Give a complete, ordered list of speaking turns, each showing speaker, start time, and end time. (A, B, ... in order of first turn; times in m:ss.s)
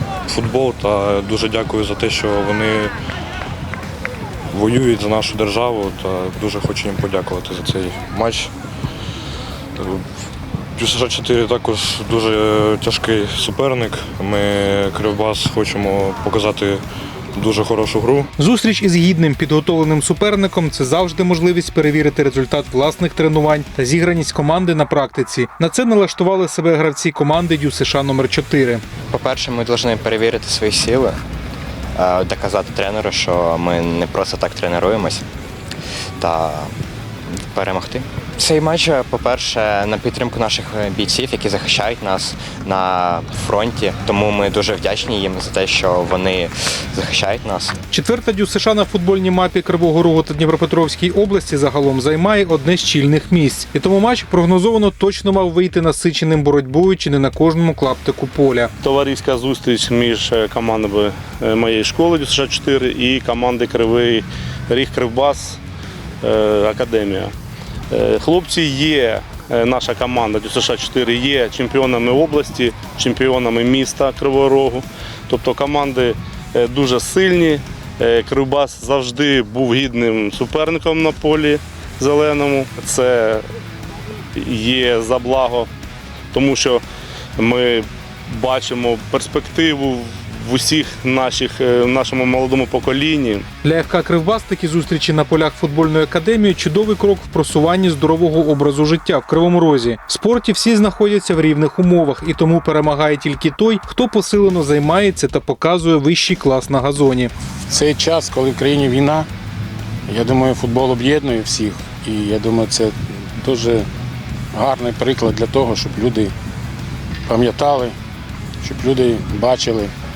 0:00.3-0:02.9 A
0:04.5-0:08.5 A
0:09.8-0:10.0 A
0:10.8-0:16.8 A
0:17.3-0:18.3 A
0:18.4-0:28.8 B
0:29.1-0:31.2 C
0:32.0-0:35.2 C
0:36.2-0:36.7 C
0:37.5-0:47.8 C
0:47.9-0:58.7 B
0:58.8-1:05.6 D
1:06.2-1:07.3 D
1:07.9-1:23.5 D
1:24.3-1:25.7 D
1:26.3-1:26.8 D
1:27.4-1:33.4 D
1:33.6-1:47.3 B
1:47.7-1:49.3 E
1:50.1-1:53.9 E
1:54.5-1:56.3 E
1:57.3-1:58.0 E
1:58.6-1:59.9 E